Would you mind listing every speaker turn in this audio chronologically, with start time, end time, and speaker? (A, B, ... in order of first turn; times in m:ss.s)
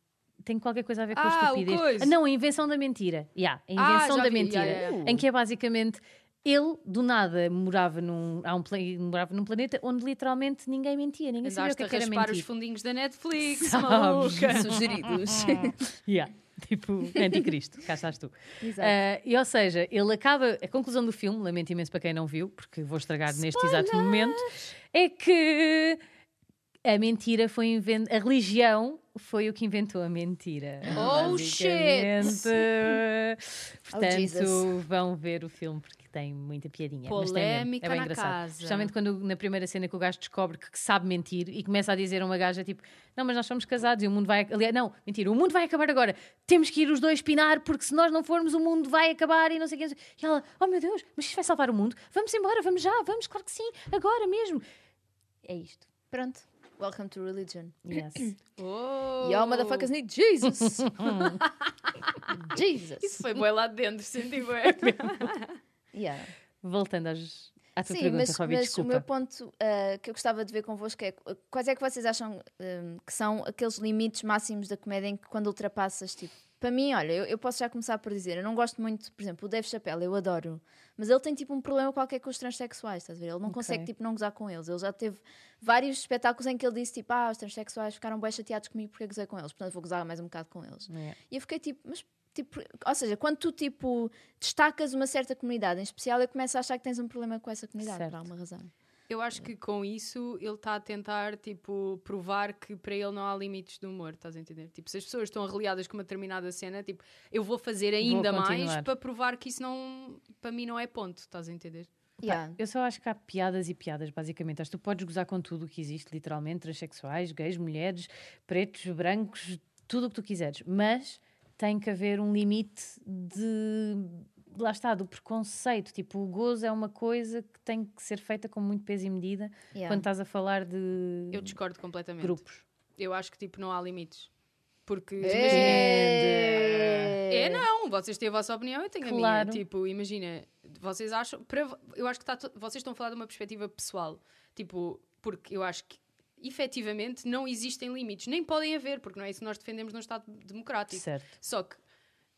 0:00.4-0:12.5 A
0:01.1-0:02.1 B
0:03.8-0:05.0 B
0:04.6-0:05.2 C
0:11.4-0:15.0 B
0:13.5-0:26.0 A
0:14.5-0:15.8 C
0:18.6-0:19.0 C
0:23.4-0:24.7 B
0:26.8-0:54.6 A
0:30.8-0:31.4 C
0:30.9-0:32.6 B
0:33.9-0:34.7 C
0:37.1-0:38.9 B
0:55.4-0:55.9 A
0:56.1-0:58.3 C
0:57.8-0:58.3 A
0:58.6-0:59.9 B
0:59.2-1:01.4 C
1:00.6-1:01.4 A
1:01.4-1:02.3 B
1:02.5-1:03.2 C
1:03.0-1:05.6 B
1:05.9-1:06.3 C
1:06.6-1:09.0 A
1:07.9-1:38.7 C
1:23.4-1:23.9 A
1:30.9-1:31.2 A
1:37.8-1:38.2 A
1:39.1-1:51.9 B
1:48.0-1:48.9 A
1:52.2-2:11.5 A
1:52.2-1:52.6 C
2:09.7-2:10.1 C
2:11.3-2:12.4 B
2:12.2-2:12.6 A
2:13.0-2:14.3 B
2:14.9-2:31.8 B
2:15.2-2:17.6 C
2:15.2-2:17.2 A
2:19.0-2:19.6 A
2:30.9-2:31.3 A